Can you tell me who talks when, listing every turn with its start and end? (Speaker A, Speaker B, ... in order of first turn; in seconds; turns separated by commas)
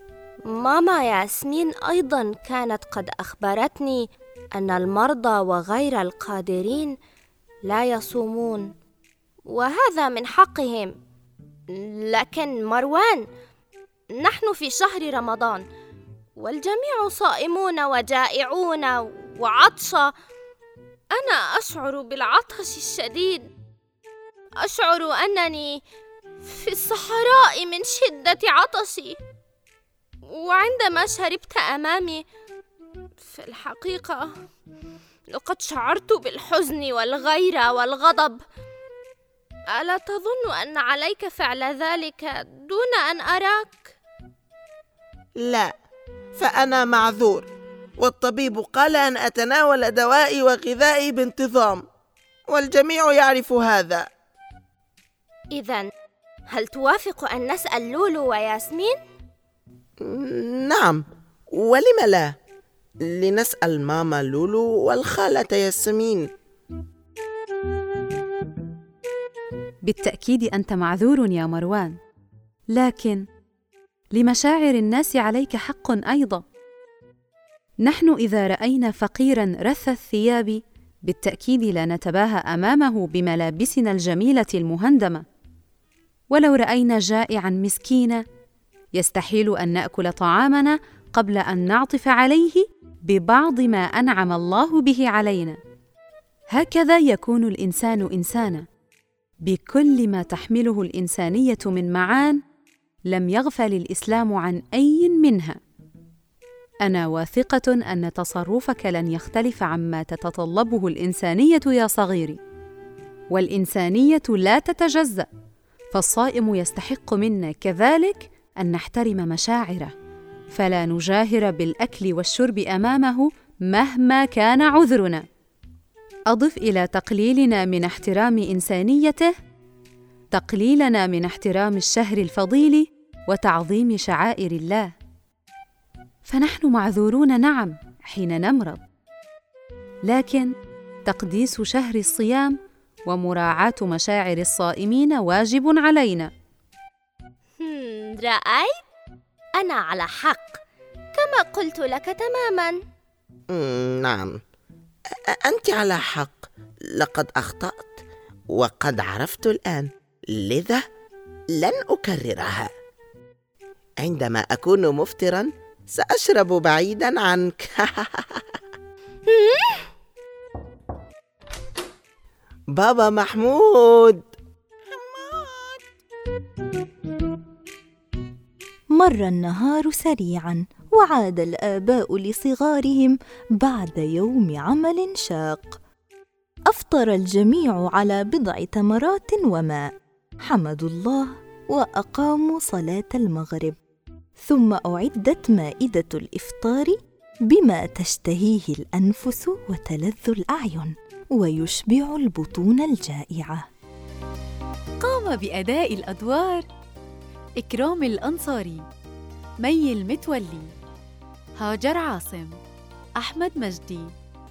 Speaker A: 0.5-6.9, Speaker A: 7.7-8.7, Speaker A: 9.5-10.9, Speaker A: 11.7-13.2, Speaker A: 14.2-15.6, Speaker A: 16.4-20.1, Speaker A: 21.1-23.4, Speaker A: 24.6-25.8, Speaker A: 26.4-29.2, Speaker A: 30.3-32.2, Speaker A: 33.2-34.3, Speaker A: 35.3-38.4, Speaker A: 39.7-43.8, Speaker B: 45.4-45.7, Speaker B: 46.3-51.9, Speaker B: 52.5-54.0, Speaker A: 55.5-55.9, Speaker A: 56.5-59.0, Speaker B: 60.0-62.3, Speaker B: 63.1-66.2, Speaker C: 69.8-72.0, Speaker C: 72.7-73.2, Speaker C: 74.1-76.4, Speaker C: 77.8-85.2, Speaker C: 86.3-88.2, Speaker C: 88.9-95.6, Speaker C: 96.5-98.7, Speaker C: 99.4-102.4, Speaker C: 103.1-105.6, Speaker C: 106.8-112.4, Speaker C: 113.3-115.3, Speaker C: 115.9-119.9, Speaker C: 120.5-125.2, Speaker C: 126.3-129.3, Speaker C: 130.3-134.9, Speaker C: 136.2-138.8, Speaker C: 140.0-140.5, Speaker C: 141.1-142.6, Speaker C: 143.1-146.3, Speaker A: 147.6-148.7, Speaker A: 149.6-150.6, Speaker A: 151.1-152.8, Speaker B: 153.5-154.3, Speaker B: 155.3-158.0, Speaker B: 158.5-160.8, Speaker B: 161.6-162.7, Speaker B: 164.0-168.4, Speaker A: 169.3-169.9, Speaker B: 172.7-174.2, Speaker B: 174.9-175.8, Speaker D: 178.9-185.8, Speaker D: 186.7-189.9, Speaker D: 190.5-193.8, Speaker D: 194.4-197.0, Speaker D: 197.5-203.6, Speaker E: 205.0-206.7, Speaker E: 207.6-208.9, Speaker E: 209.6-210.7, Speaker E: 211.6-212.6, Speaker E: 213.2-214.1